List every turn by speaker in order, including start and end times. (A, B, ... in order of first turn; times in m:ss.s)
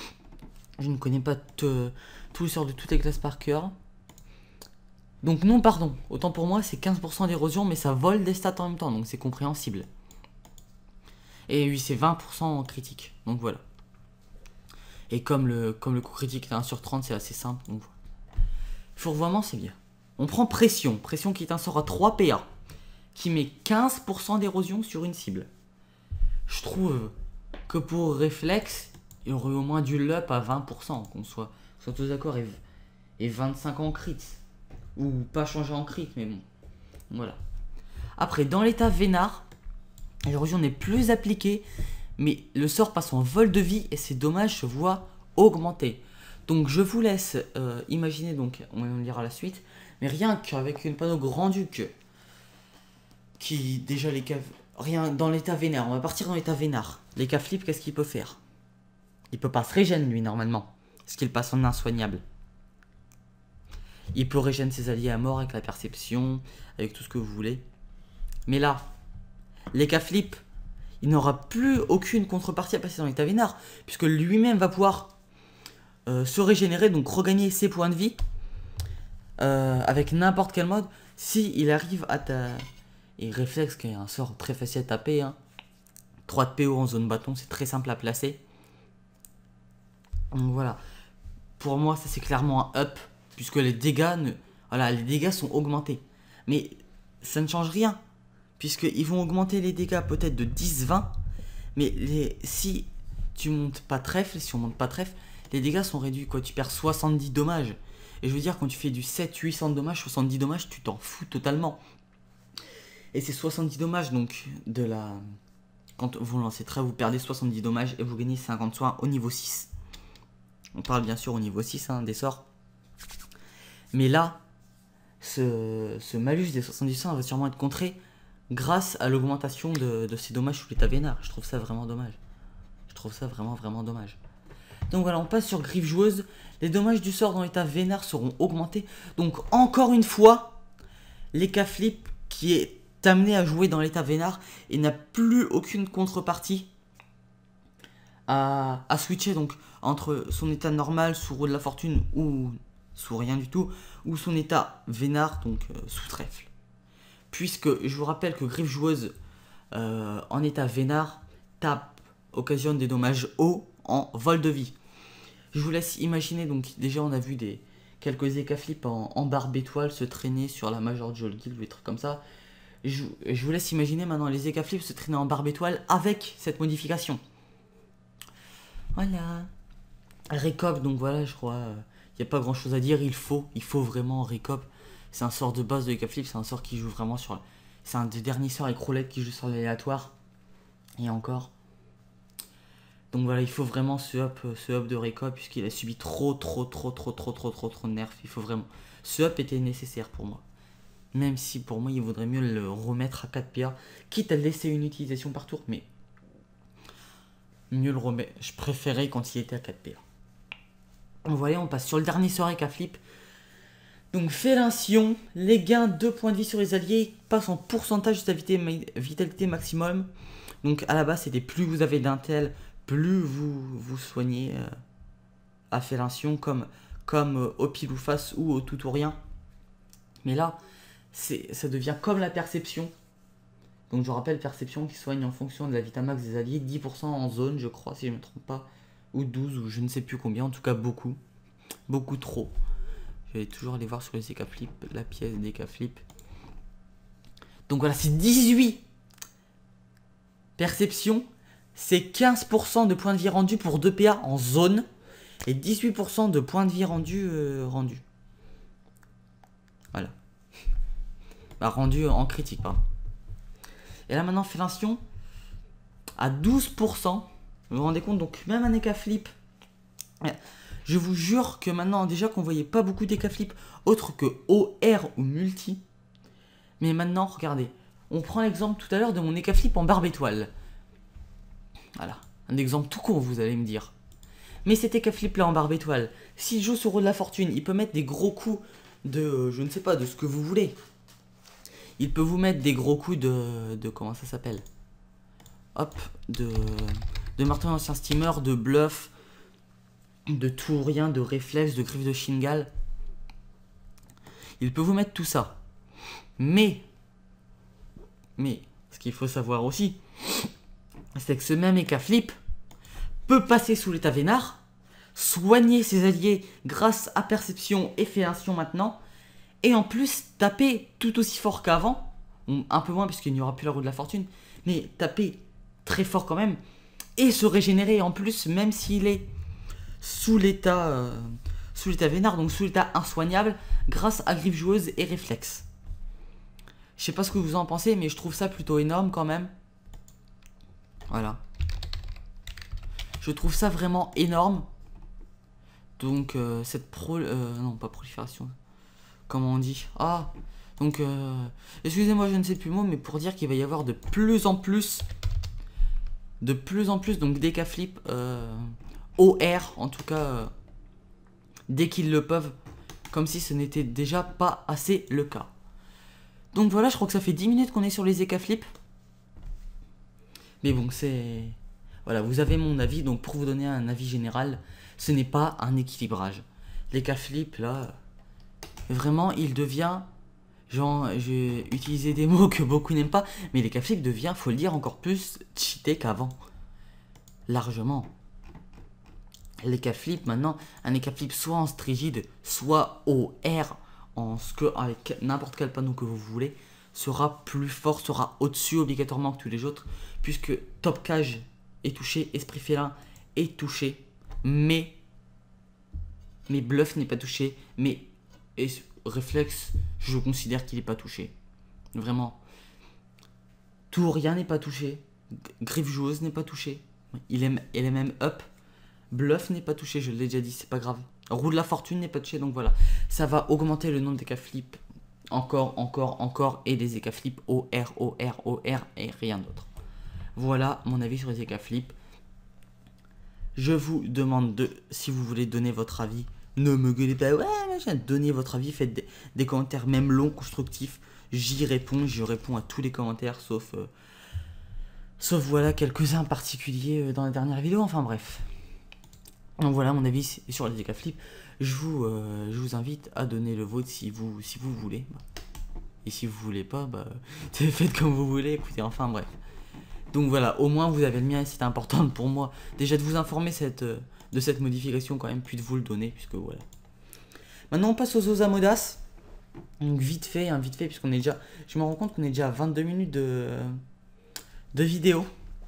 0:00.8-0:03.7 A
0:05.2-0:09.9 A
0:11.5-0:13.6 A
0:15.1-0:17.9 A
0:19.0-0:22.5 A
0:23.1-0:25.5 A
0:26.5-0:27.1 A
0:27.7-0:32.6 A
0:33.2-0:34.4 A
0:35.0-0:36.4 A
0:37.1-0:37.4 A
0:38.2-0:39.4 A
0:40.2-0:41.6 A
0:42.2-0:51.9 A
0:53.4-0:58.4 A
0:59.3-1:02.2 A
1:04.1-1:07.6 A
1:08.5-1:08.8 A
1:09.7-1:10.4 A
1:11.0-1:15.1 A
1:16.1-1:18.2 A
1:19.4-1:22.6 A
1:23.2-1:25.4 A
1:26.3-1:28.4 A
1:30.3-1:30.8 A
1:31.6-1:38.0 A
1:38.6-1:41.1 A
1:41.8-1:51.8 A
1:53.1-1:55.3 A
1:56.0-1:59.7 A
2:00.7-2:02.4 A
2:03.9-2:04.4 A
2:05.2-2:08.0 A
2:08.5-2:12.2 A
2:12.9-2:14.2 A
2:14.9-2:20.6 A
2:21.3-2:26.7 A
2:28.3-2:36.5 A
2:37.3-2:39.1 A
2:39.7-2:44.7 A
2:45.5-2:52.2 A
2:52.8-2:57.2 A
2:58.9-2:59.5 A
3:00.3-3:10.1 A
3:11.0-3:11.5 A
3:13.1-3:20.4 A
3:21.1-3:25.8 A
3:27.7-3:30.0 A
3:31.3-3:33.0 A
3:34.1-3:40.1 A
3:40.6-3:44.7 A
3:45.7-3:49.2 A
3:50.2-3:50.6 A
3:51.1-3:52.9 A
3:53.9-4:01.2 A
4:01.9-4:02.5 A
4:03.3-4:06.0 A
4:07.7-4:08.8 A
4:10.6-4:14.8 A
4:15.4-4:18.0 A
4:21.6-4:22.8 A
4:24.1-4:25.0 A
4:26.2-4:29.3 A
4:30.2-4:35.8 A
4:36.8-4:40.5 A
4:41.9-4:43.9 A
4:44.6-4:50.7 A
4:52.0-4:54.6 A
4:55.7-4:59.1 A
5:00.3-5:02.7 A
5:04.6-5:05.6 A
5:06.4-5:06.8 A
5:08.4-5:10.5 A
5:11.1-5:12.4 A
5:13.3-5:14.6 A
5:15.1-5:19.0 A
5:19.6-5:26.6 A
5:27.2-5:29.3 A
5:30.0-5:35.6 A
5:37.0-5:39.5 A
5:41.1-5:41.4 A
5:43.2-5:44.7 A
5:46.0-5:48.5 A
5:49.3-5:55.0 A
5:56.4-6:00.5 A
6:01.7-6:02.5 A
6:03.1-6:05.5 A
6:06.5-6:08.6 A
6:10.6-6:17.9 A
6:18.9-6:20.1 A
6:20.7-6:26.4 A
6:27.5-6:28.1 A
6:29.6-6:45.0 A
6:46.5-6:51.3 A
6:51.9-6:52.4 A
6:53.9-6:58.4 A
6:59.1-7:04.8 A
7:05.3-7:09.7 A
7:10.4-7:11.9 A
7:13.6-7:23.9 A
7:25.2-7:28.4 A
7:29.6-7:35.2 A
7:36.0-7:39.3 A
7:40.1-7:46.6 A
7:47.7-7:49.0 A
7:49.8-7:53.8 A
7:54.7-7:55.3 A